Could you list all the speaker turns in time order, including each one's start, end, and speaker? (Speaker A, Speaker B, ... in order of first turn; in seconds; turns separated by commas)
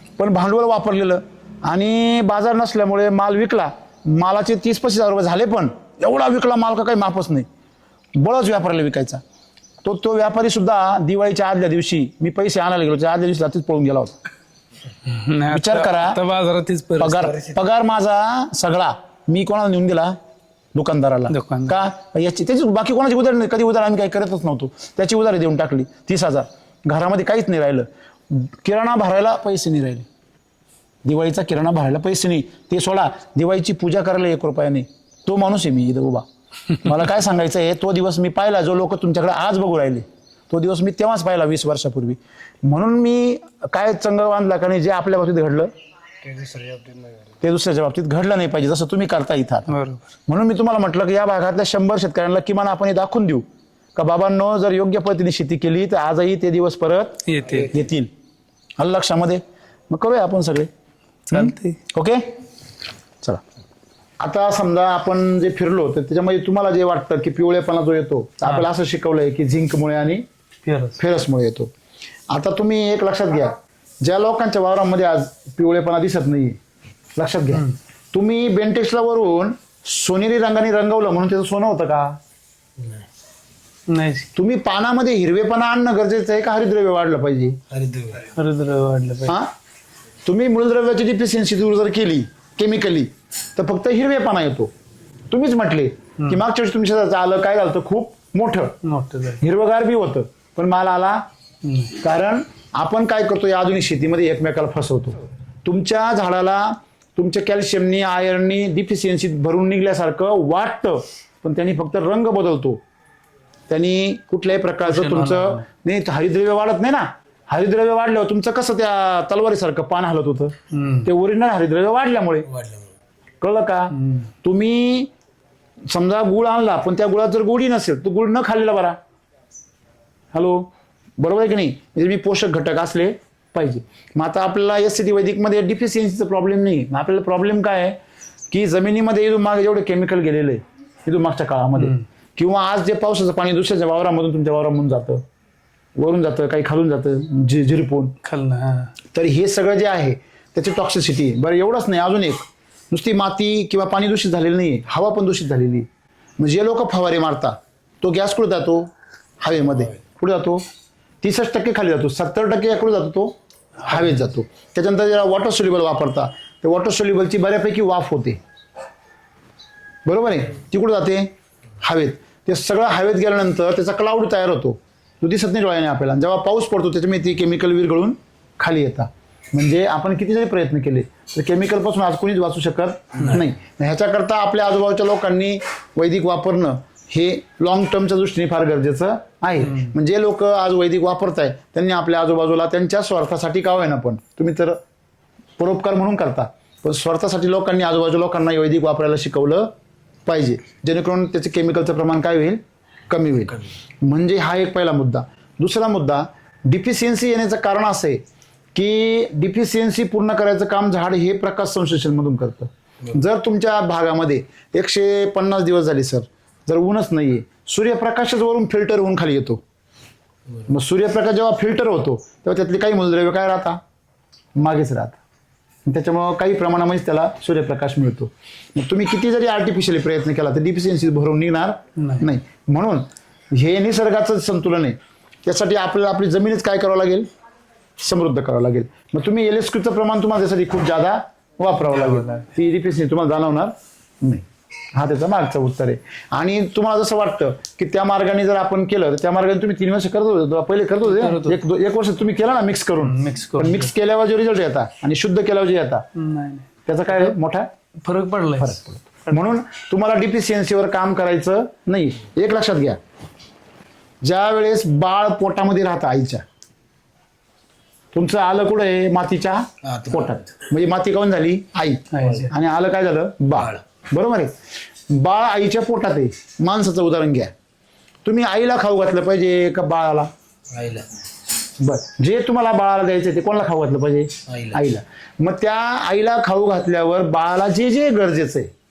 Speaker A: 0.2-7.5, Speaker A: 8.2-9.2, Speaker A: 9.8-14.1, Speaker B: 15.1-17.4, Speaker A: 15.5-16.2, Speaker A: 17.0-20.2, Speaker A: 20.7-30.1, Speaker B: 21.3-21.8, Speaker A: 31.0-36.2, Speaker A: 36.8-45.7, Speaker C: 46.2-47.4, Speaker A: 47.4-49.7, Speaker B: 49.7-50.0, Speaker A: 50.3-58.1, Speaker B: 57.2-57.7, Speaker A: 58.8-60.7, Speaker B: 61.3-61.8, Speaker A: 61.3-62.3, Speaker A: 64.2-70.2, Speaker B: 70.6-71.0, Speaker A: 71.0-71.7, Speaker A: 72.3-76.6, Speaker A: 77.2-82.2, Speaker C: 82.8-83.0, Speaker B: 83.9-84.3, Speaker A: 84.3-87.6, Speaker C: 87.7-88.3, Speaker B: 88.3-89.4, Speaker A: 89.2-89.5, Speaker A: 90.2-94.7, Speaker A: 95.3-98.8, Speaker B: 98.8-99.4, Speaker A: 99.4-101.2, Speaker B: 101.6-101.9, Speaker A: 102.0-112.8, Speaker A: 113.7-122.5, Speaker B: 114.8-115.6, Speaker B: 120.7-121.1, Speaker C: 122.4-122.9, Speaker A: 123.4-125.1, Speaker B: 123.9-124.3, Speaker A: 125.9-129.0, Speaker A: 130.3-138.0, Speaker A: 138.5-145.2, Speaker B: 141.8-142.0, Speaker A: 146.0-148.2, Speaker B: 148.2-148.9, Speaker A: 149.1-158.9, Speaker A: 159.4-160.6, Speaker A: 161.2-168.4, Speaker A: 170.0-194.8, Speaker B: 189.6-189.9, Speaker A: 195.6-199.7, Speaker A: 200.2-219.6, Speaker A: 220.7-223.8, Speaker A: 224.5-225.2, Speaker A: 225.8-237.3, Speaker B: 232.0-232.3, Speaker A: 238.0-256.0, Speaker B: 241.8-242.5, Speaker B: 251.0-251.6, Speaker B: 253.0-253.9, Speaker B: 256.1-257.3, Speaker A: 256.9-257.7, Speaker B: 258.0-258.8, Speaker A: 258.6-263.0, Speaker A: 264.2-266.4, Speaker A: 268.1-274.6, Speaker C: 269.8-270.4, Speaker B: 272.1-272.5, Speaker A: 275.1-277.5, Speaker A: 278.2-280.3, Speaker C: 280.7-281.1, Speaker A: 281.8-288.7, Speaker C: 284.5-284.8